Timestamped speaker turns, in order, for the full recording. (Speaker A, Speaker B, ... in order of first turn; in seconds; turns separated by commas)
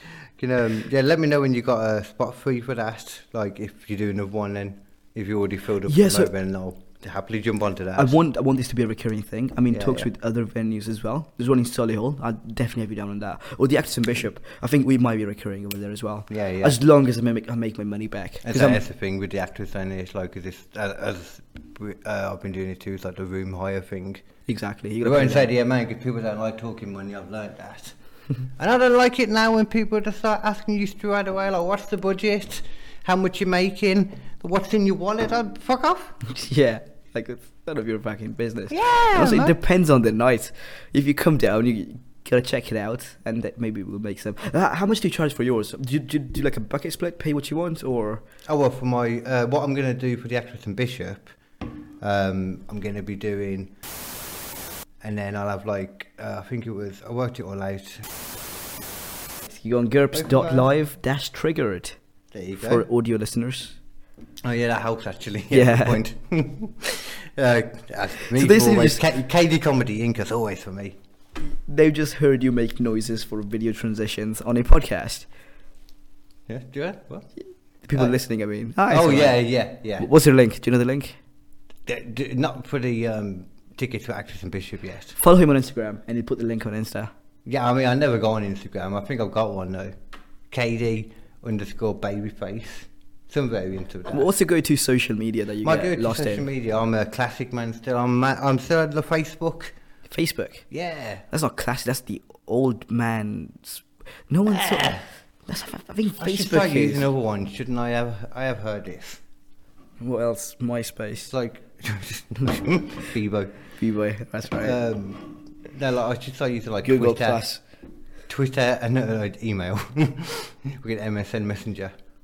Speaker A: 0.4-8.2, Speaker B: 5.9-6.3, Speaker B: 8.0-18.8, Speaker A: 9.7-10.1, Speaker A: 16.3-16.8, Speaker A: 18.4-24.3, Speaker B: 24.5-25.5, Speaker A: 25.0-27.9, Speaker A: 28.6-36.2, Speaker B: 36.2-48.2, Speaker A: 38.7-39.5, Speaker A: 48.5-51.3, Speaker A: 52.0-53.7, Speaker A: 55.0-58.1, Speaker B: 59.5-62.0, Speaker A: 60.1-60.7, Speaker A: 62.3-62.9, Speaker B: 62.6-63.8, Speaker A: 64.4-71.0, Speaker B: 65.5-66.0, Speaker B: 68.3-69.0, Speaker B: 71.5-75.3, Speaker A: 76.5-77.3, Speaker B: 77.8-79.5, Speaker A: 78.9-80.1, Speaker B: 80.0-81.2, Speaker A: 81.9-85.2, Speaker B: 85.2-87.1, Speaker A: 87.5-89.9, Speaker A: 90.5-94.3, Speaker B: 94.1-96.5, Speaker A: 95.6-99.8, Speaker B: 100.1-100.7, Speaker A: 100.7-101.2, Speaker B: 101.3-107.1, Speaker A: 104.5-105.1, Speaker A: 106.2-109.2, Speaker B: 110.0-111.3, Speaker A: 111.3-113.6, Speaker B: 113.8-114.8, Speaker A: 114.6-117.4, Speaker B: 116.8-117.6, Speaker A: 118.3-121.9